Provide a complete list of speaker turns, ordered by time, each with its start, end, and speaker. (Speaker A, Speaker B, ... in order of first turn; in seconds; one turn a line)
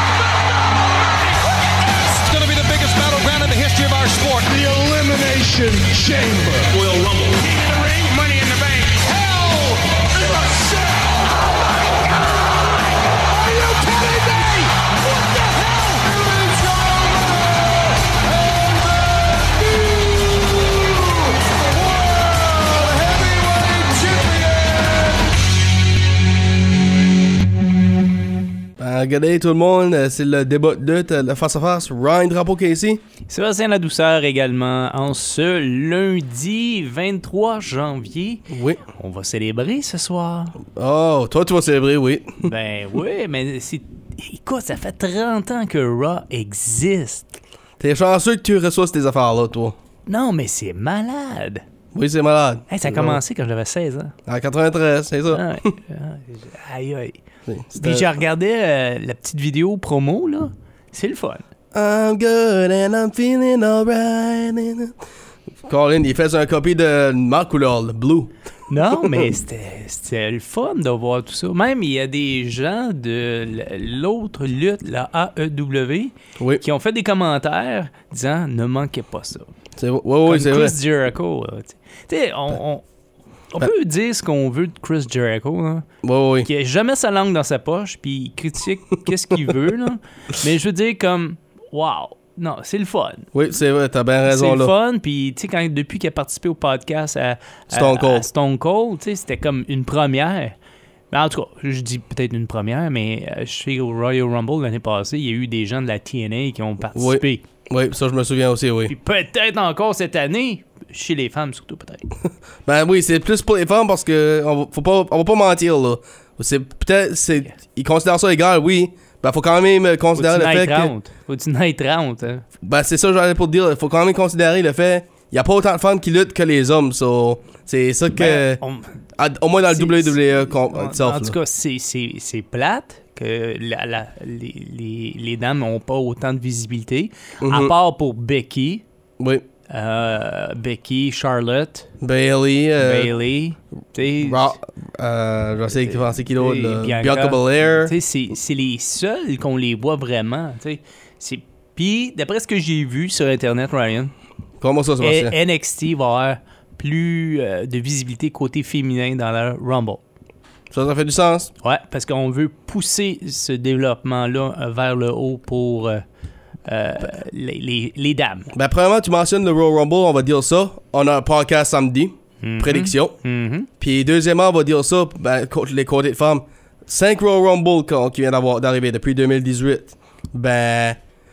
Speaker A: 0.8-25.3
Speaker B: 28.8-33.0
Speaker C: 33.3-40.6
Speaker B: 38.5-38.8
Speaker B: 40.7-42.4
Speaker C: 42.4-47.3
Speaker B: 47.8-49.8
Speaker C: 50.0-51.6
Speaker B: 51.9-53.2
Speaker C: 52.7-54.1
Speaker B: 54.2-55.4
Speaker C: 55.3-57.2
Speaker B: 57.5-58.1
Speaker C: 57.8-61.4
Speaker B: 61.7-64.9
Speaker B: 65.6-68.3
Speaker C: 68.7-79.5
Speaker B: 69.0-69.2
Speaker B: 79.8-80.7
Speaker C: 80.2-82.8
Speaker C: 83.5-85.8
Speaker B: 86.0-86.5
Speaker C: 86.4-93.3
Speaker B: 93.3-94.7
Speaker C: 94.2-100.5
Speaker B: 97.7-98.3
Speaker C: 101.1-107.4
Speaker B: 106.9-108.9
Speaker C: 108.9-112.1
Speaker B: 112.6-120.9
Speaker C: 120.2-122.4
Speaker B: 122.6-128.6
Speaker C: 128.2-128.9
Speaker B: 129.2-131.3
Speaker C: 129.7-138.8
Speaker B: 137.4-137.7
Speaker B: 139.2-139.4
Speaker C: 139.7-141.9
Speaker B: 142.0-143.1
Speaker C: 142.8-144.6
Speaker B: 144.2-147.9
Speaker C: 146.3-154.1
Speaker B: 154.6-155.3
Speaker C: 155.0-160.0
Speaker B: 160.7-161.5
Speaker C: 161.6-166.0
Speaker C: 166.7-168.5
Speaker B: 168.5-173.2
Speaker C: 172.4-173.7
Speaker B: 173.8-181.0